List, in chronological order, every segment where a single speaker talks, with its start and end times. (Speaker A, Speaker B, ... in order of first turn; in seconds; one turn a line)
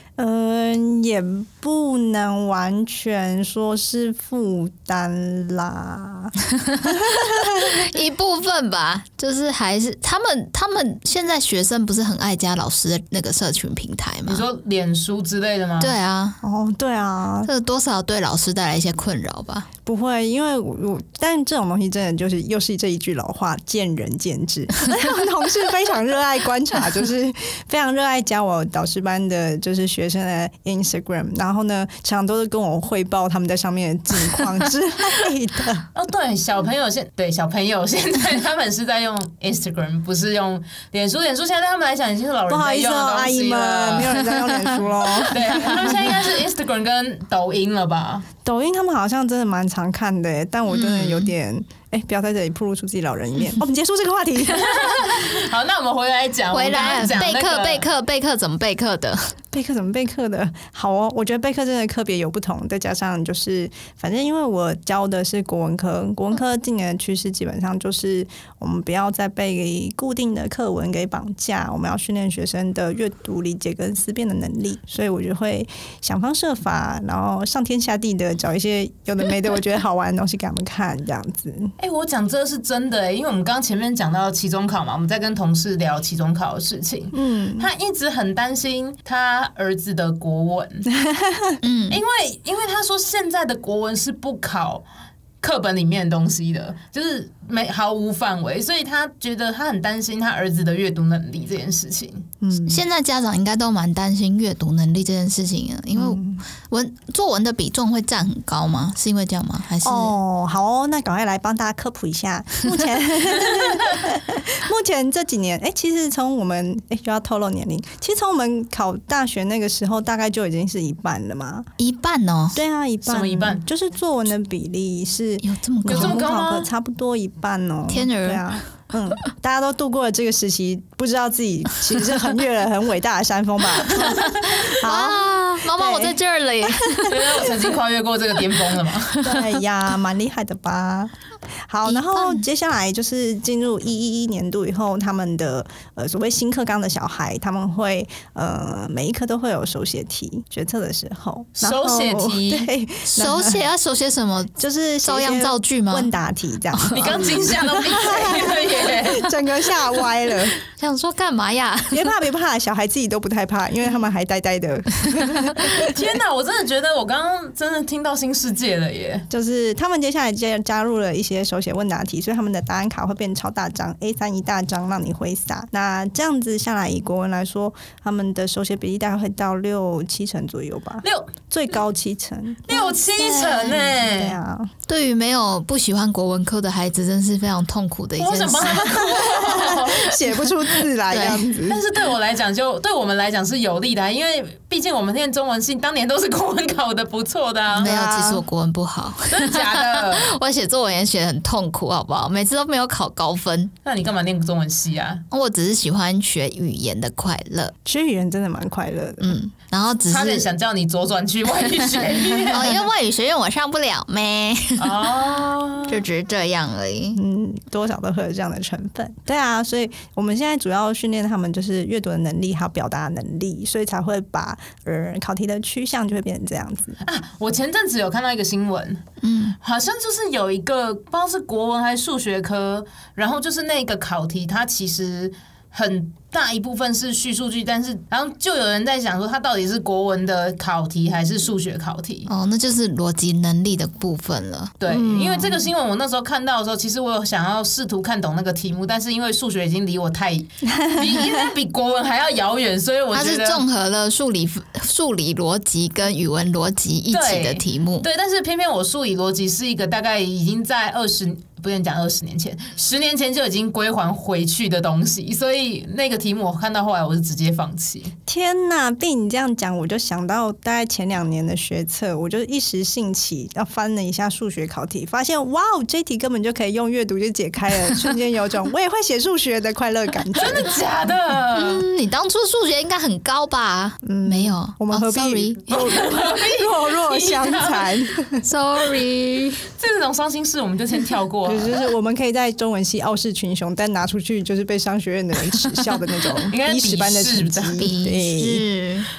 Speaker A: 0.2-7.8
Speaker B: 6.5-14.4
Speaker C: 14.3-15.9
Speaker B: 15.8-16.4
Speaker A: 16.4-17.5
Speaker B: 17.4-19.7
Speaker A: 19.9-35.9
Speaker C: 36.0-44.2
Speaker A: 42.5-46.0
Speaker C: 45.2-48.3
Speaker A: 48.4-55.0
Speaker B: 50.7-51.3
Speaker C: 54.5-57.8
Speaker B: 56.5-59.3
Speaker A: 59.5-81.7
Speaker C: 81.8-90.9
Speaker A: 87.1-87.7
Speaker A: 90.9-91.6
Speaker B: 91.6-92.0
Speaker C: 91.9-94.8
Speaker C: 95.4-102.3
Speaker A: 102.4-102.8
Speaker B: 102.7-110.2
Speaker A: 105.9-106.4
Speaker A: 109.8-121.7
Speaker B: 121.8-122.6
Speaker A: 122.5-137.5
Speaker C: 123.0-123.6
Speaker B: 125.4-126.2
Speaker C: 125.8-126.7
Speaker B: 127.9-128.5
Speaker C: 133.9-134.3
Speaker B: 133.9-137.5
Speaker C: 137.1-139.3
Speaker A: 139.2-141.1
Speaker A: 141.7-153.6
Speaker B: 141.8-142.5
Speaker C: 151.6-152.7
Speaker B: 153.1-156.1
Speaker A: 154.6-160.6
Speaker B: 156.7-157.1
Speaker C: 156.9-159.3
Speaker B: 160.7-162.1
Speaker A: 161.9-166.0
Speaker C: 165.6-169.3
Speaker A: 169.3-184.7
Speaker C: 181.0-181.3
Speaker C: 182.7-184.4
Speaker B: 184.9-189.0
Speaker C: 188.2-190.1
Speaker A: 189.2-191.8
Speaker B: 191.1-191.5
Speaker C: 191.7-197.9
Speaker A: 197.7-198.4
Speaker B: 197.8-203.7
Speaker C: 199.3-200.3
Speaker C: 203.8-205.2
Speaker B: 205.3-207.8
Speaker A: 207.9-209.4
Speaker B: 209.2-210.5
Speaker C: 210.1-212.8
Speaker B: 212.3-215.0
Speaker C: 214.8-216.0
Speaker B: 215.9-217.2
Speaker A: 217.1-227.0
Speaker C: 227.0-229.0
Speaker B: 229.2-229.6
Speaker C: 229.6-242.3
Speaker B: 242.3-244.8
Speaker C: 244.8-253.6
Speaker A: 244.9-245.7
Speaker A: 250.7-251.5
Speaker B: 253.1-258.1
Speaker C: 257.1-268.1
Speaker A: 268.3-280.8
Speaker C: 280.3-281.8
Speaker B: 281.6-285.8
Speaker A: 284.0-288.4
Speaker C: 285.7-288.0
Speaker B: 288.4-289.7
Speaker C: 289.8-291.7
Speaker A: 291.5-298.6
Speaker C: 296.5-297.8
Speaker B: 297.8-299.1